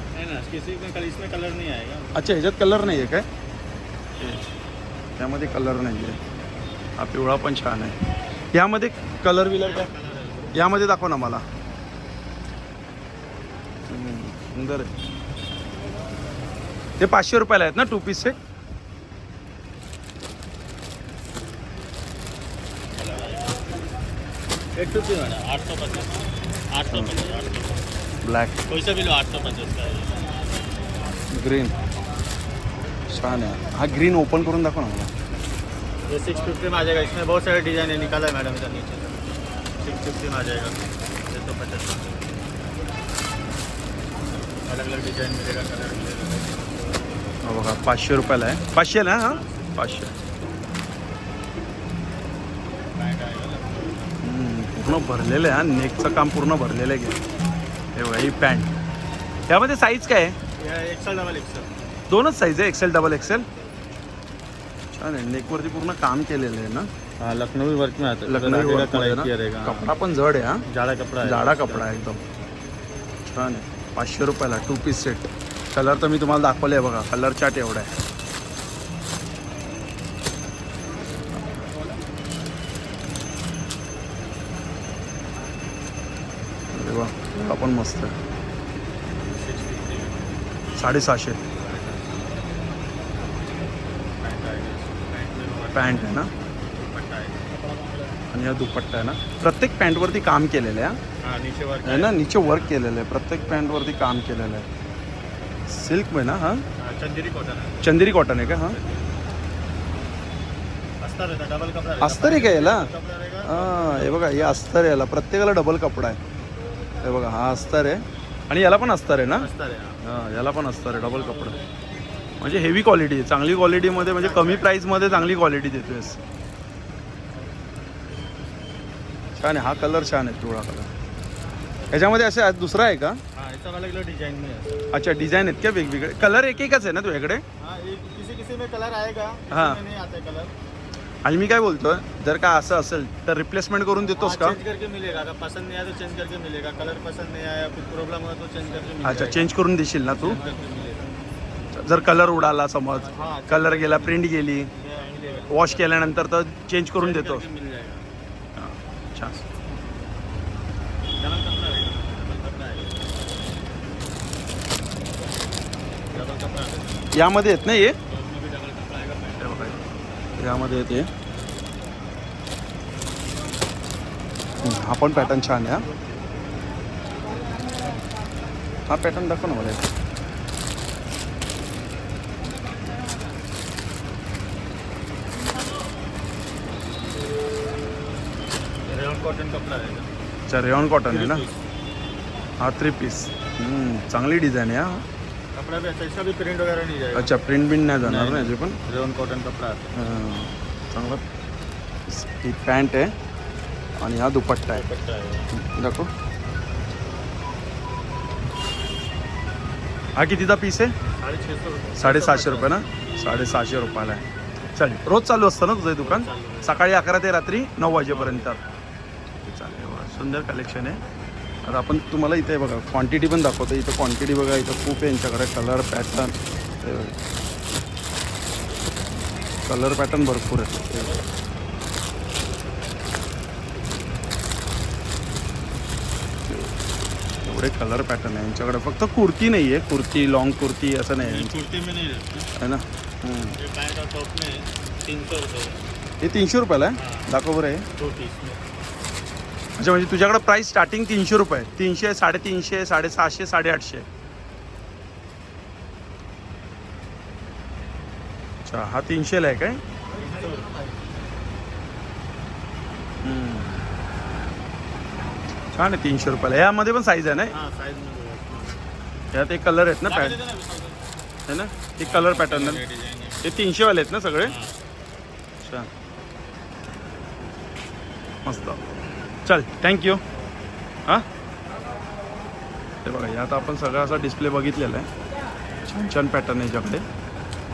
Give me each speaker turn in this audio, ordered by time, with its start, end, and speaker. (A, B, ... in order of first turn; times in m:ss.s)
0:00.1-0:02.2 A
0:02.2-0:03.3 B
0:04.2-0:04.4 B
0:05.2-0:06.2 B
0:07.0-0:08.0 B
0:08.5-0:09.9 B
0:09.6-0:10.6 A
0:10.5-0:11.4 B
0:13.9-0:14.9 B
0:17.0-0:18.4 B
0:23.0-0:23.7 A
0:24.8-0:26.1 A
0:26.7-0:28.0 A
0:28.2-0:28.6 B
0:28.7-0:30.4 A
0:31.3-0:31.7 B
0:33.1-0:35.1 B
0:36.1-0:39.2 A
0:39.8-0:42.3 A
0:44.7-0:46.8 A
0:47.4-0:50.2 B
0:49.1-0:49.8 A
0:53.0-0:54.2 A
0:54.2-0:57.2 B
0:58.0-0:58.7 B
0:59.5-1:00.4 B
1:00.6-1:01.7 A
1:02.1-1:03.4 B
1:04.9-1:06.9 B
1:07.2-1:09.9 A
1:08.3-1:10.6 B
1:10.7-1:11.9 A
1:11.2-1:12.2 B
1:13.3-1:17.9 B
1:26.7-1:28.2 B
1:29.3-1:30.4 A
1:30.8-1:31.4 B
1:31.6-1:32.2 A
1:34.2-1:37.4 A
1:35.7-1:36.3 B
1:38.3-1:41.0 B
1:41.2-1:42.8 A
1:41.8-1:44.7 B
1:45.7-1:46.6 B
1:46.8-1:49.2 A
1:47.8-1:48.8 B
1:51.0-1:54.8 A
1:52.0-1:52.9 B
1:53.4-1:56.2 B
1:57.0-1:59.5 B
1:59.3-2:00.0 A
2:00.0-2:01.6 B
2:00.9-2:01.6 A
2:02.4-2:06.2 B
2:03.9-2:05.0 A
2:09.4-2:10.9 B
2:11.8-2:12.2 A
2:11.9-2:13.2 B
2:13.3-2:16.9 A
2:14.9-2:17.4 B
2:17.6-2:20.5 A
2:19.5-2:19.8 B
2:21.2-2:24.6 B
2:24.2-2:31.2 A
2:29.0-2:30.4 B
2:31.7-2:34.7 B
2:33.0-2:36.3 A
2:35.5-2:37.4 B
2:37.0-2:38.0 A
2:38.6-2:39.4 B
2:41.2-2:43.1 A
2:46.1-2:47.1 A
2:47.1-2:48.0 B
2:48.0-2:49.9 A
2:49.4-2:49.8 B
2:50.4-2:51.1 B
2:54.6-2:55.9 B
2:58.9-2:59.9 B
3:08.9-3:10.1 A
3:10.5-3:11.4 B
3:11.1-3:11.6 A
3:12.6-3:15.0 B
3:15.6-3:17.4 A
3:17.2-3:18.8 B
3:18.0-3:19.9 A
3:20.0-3:21.2 B
3:22.1-3:23.1 B
3:24.0-3:24.8 B
3:24.7-3:25.5 A
3:25.5-3:26.1 B
3:30.2-3:30.9 B
3:31.2-3:32.9 A
3:32.0-3:34.2 B
3:34.8-3:38.6 B
3:36.0-3:36.9 A
3:38.0-3:38.8 A
3:39.4-3:41.0 B
3:41.6-3:47.2 B
3:49.7-3:51.1 B
3:56.5-3:56.7 B
3:57.4-4:01.5 B
4:01.2-4:02.5 A
4:02.6-4:03.6 B
4:03.6-4:05.8 A
4:06.2-4:07.9 B
4:07.0-4:07.3 A
4:08.0-4:08.6 A
4:09.8-4:14.1 B
4:18.6-4:19.8 B
4:20.1-4:21.0 A
4:23.2-4:23.7 B
4:25.7-4:27.5 B
4:27.5-4:28.8 A
4:29.3-4:30.4 B
4:30.0-4:31.1 A
4:31.5-4:32.8 B
4:32.0-4:33.7 A
4:33.4-4:34.5 B
4:34.4-4:34.8 A
4:35.6-4:35.9 B
4:38.5-4:38.8 B
4:39.5-4:40.2 B
4:43.0-4:45.1 B
4:45.9-4:47.0 B